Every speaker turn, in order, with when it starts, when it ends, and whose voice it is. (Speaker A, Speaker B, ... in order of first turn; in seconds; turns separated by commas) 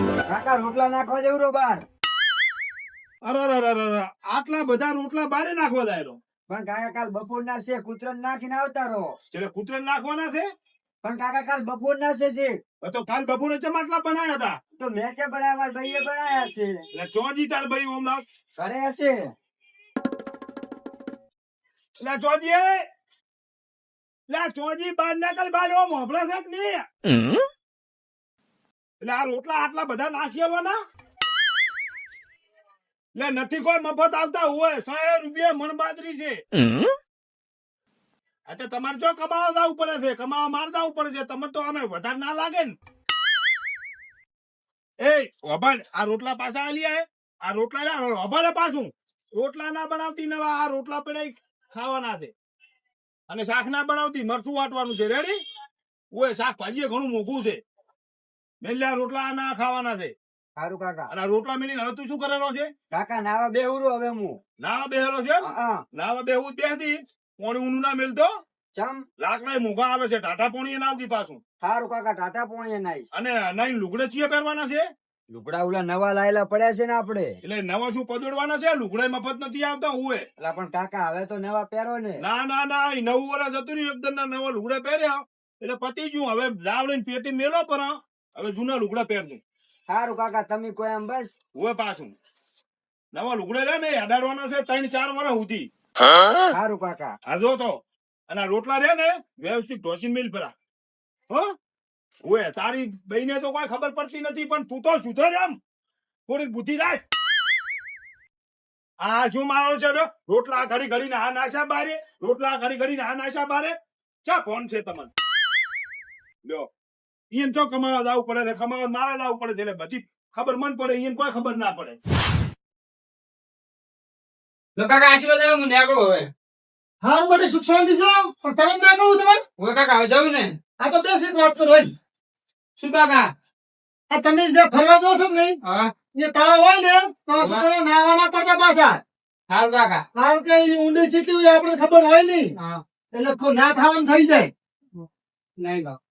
Speaker A: 0.3-1.9, Speaker B: 3.2-6.2, Speaker A: 6.5-9.2, Speaker B: 9.3-10.4, Speaker A: 11.0-12.6, Speaker B: 12.8-14.6, Speaker A: 14.8-16.9, Speaker B: 16.9-18.2, Speaker A: 18.6-19.3, Speaker B: 22.0-22.9, Speaker B: 24.3-26.9, Speaker B: 29.0-30.8, Speaker B: 33.1-36.4, Speaker B: 38.5-42.8, Speaker B: 45.0-52.3, Speaker B: 53.3-55.4, Speaker B: 56.1-57.6, Speaker B: 58.6-60.1, Speaker A: 60.6-61.1, Speaker B: 61.1-62.7, Speaker A: 62.9-64.4, Speaker B: 64.6-68.3, Speaker A: 65.4-65.8, Speaker A: 68.7-69.0, Speaker B: 69.2-71.4, Speaker A: 71.6-73.1, Speaker B: 73.1-74.9, Speaker A: 75.3-77.4, Speaker B: 77.4-80.3, Speaker A: 80.4-82.2, Speaker B: 82.2-89.4, Speaker A: 89.9-91.3, Speaker B: 91.5-92.1, Speaker B: 93.1-95.7, Speaker A: 96.5-97.2, Speaker B: 97.3-100.5, Speaker B: 102.2-105.6, Speaker B: 106.3-107.0, Speaker B: 109.0-115.1, Speaker B: 116.4-116.7, Speaker B: 117.3-122.0, Speaker C: 124.8-126.3, Speaker D: 127.0-129.4, Speaker C: 129.6-130.6, Speaker D: 130.8-131.9, Speaker C: 132.8-133.3, Speaker D: 134.1-135.6, Speaker C: 135.6-135.9, Speaker D: 136.1-139.0, Speaker C: 137.4-137.7, Speaker C: 139.5-140.1, Speaker D: 140.1-142.5, Speaker C: 142.6-142.8, Speaker D: 143.1-144.5, Speaker C: 145.6-146.0